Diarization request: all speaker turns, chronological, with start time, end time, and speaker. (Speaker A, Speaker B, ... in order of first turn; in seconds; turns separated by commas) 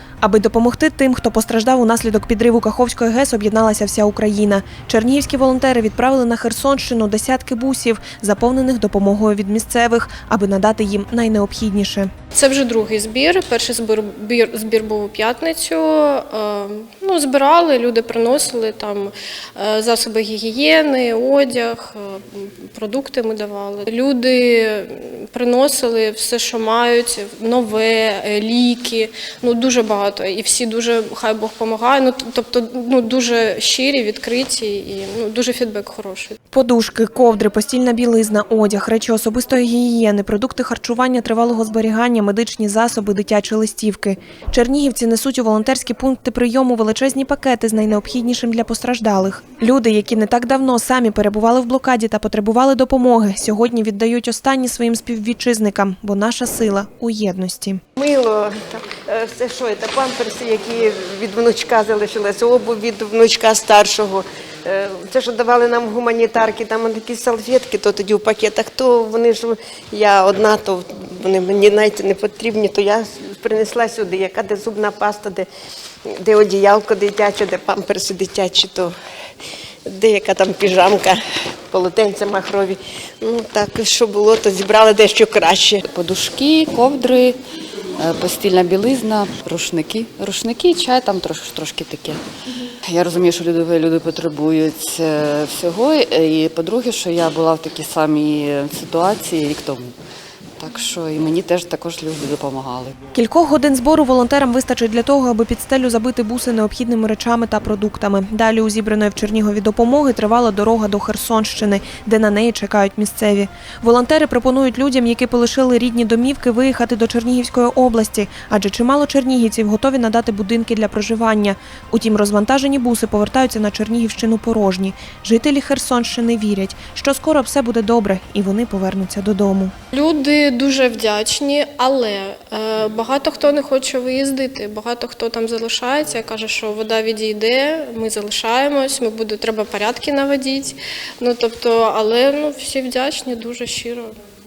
Speaker A: 0.2-12.1, Speaker B: 12.3-36.4, Speaker A: 36.5-57.8, Speaker C: 58.0-75.5, Speaker C: 76.1-78.9, Speaker C: 79.9-85.8, Speaker D: 85.8-87.4, Speaker D: 88.0-92.2, Speaker D: 92.8-100.0, Speaker D: 100.6-103.0, Speaker A: 103.1-129.7, Speaker B: 129.9-144.2